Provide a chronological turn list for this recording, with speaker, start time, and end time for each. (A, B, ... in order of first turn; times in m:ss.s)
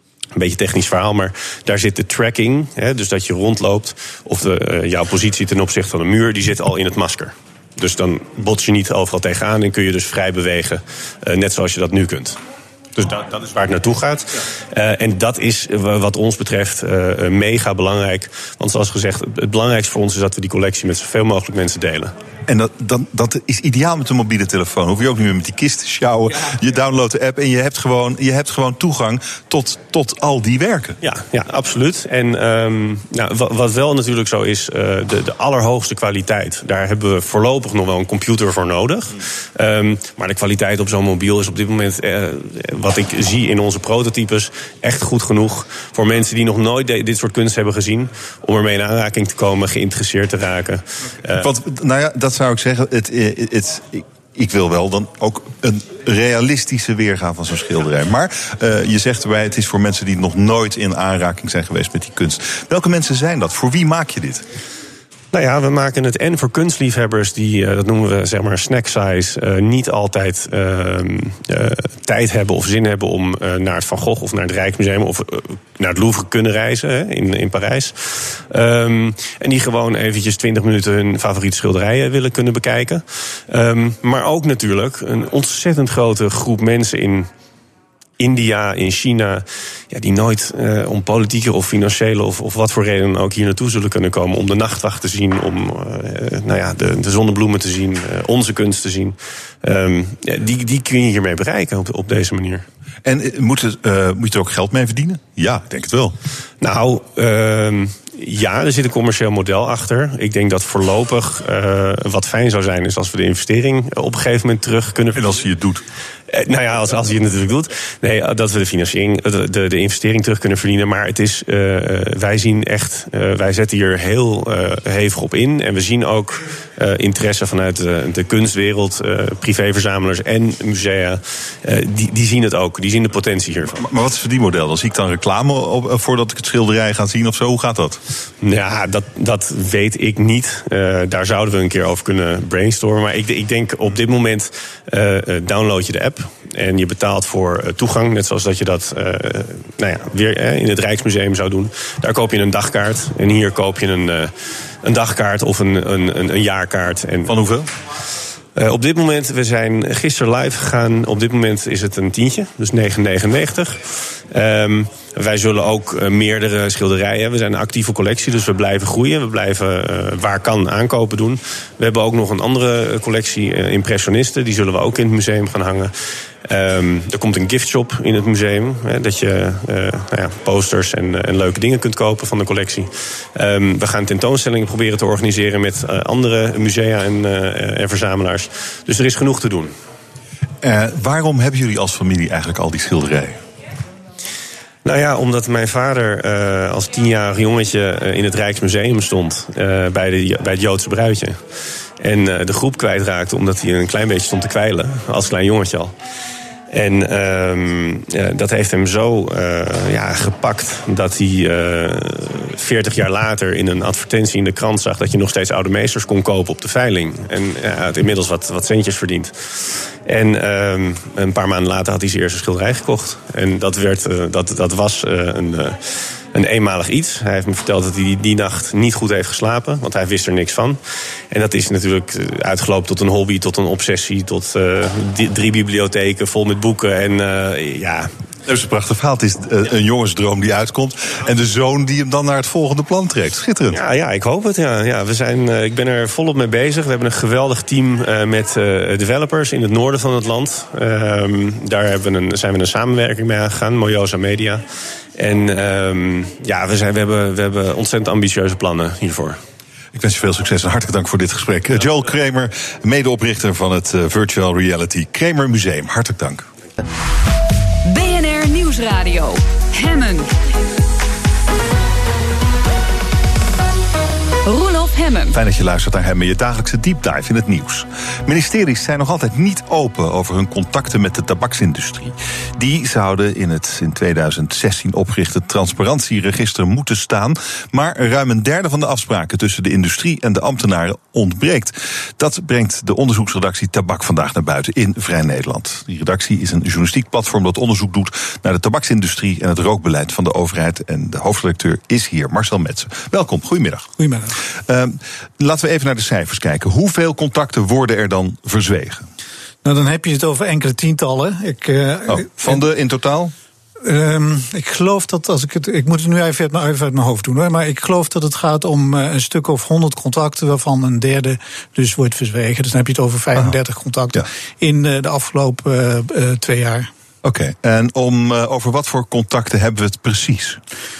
0:00.4-0:12.4 A
0:13.0-0:22.1 A
0:22.5-0:31.0 B
0:31.0-0:51.5 A
0:51.3-1:04.4 B
1:05.3-1:27.3 A
1:28.2-1:42.6 A
1:43.0-1:46.2 B
1:46.6-1:55.4 A
1:55.2-1:55.8 B
1:56.3-2:13.8 A
2:13.7-2:18.0 B
2:18.4-2:34.3 A
2:34.8-2:37.4 A
2:37.2-2:37.7 B
2:38.6-2:55.9 A
2:56.4-3:09.7 A
3:10.6-3:13.4 B
3:14.8-3:21.4 A
3:22.0-3:25.9 A
3:26.7-3:45.8 A
3:46.3-3:50.8 A
3:51.3-3:58.1 A
3:58.5-4:03.8 B
4:03.7-4:14.6 A
4:15.2-4:19.4 A
4:19.9-4:26.5 B
4:27.9-4:30.3 C
4:34.5-4:35.4 C
4:35.3-5:03.9 B
5:04.0-5:04.4 D
5:04.4-5:09.1 B
5:09.6-5:12.6 D
5:12.1-5:13.3 B
5:13.8-5:26.9 D
5:27.2-5:30.6 B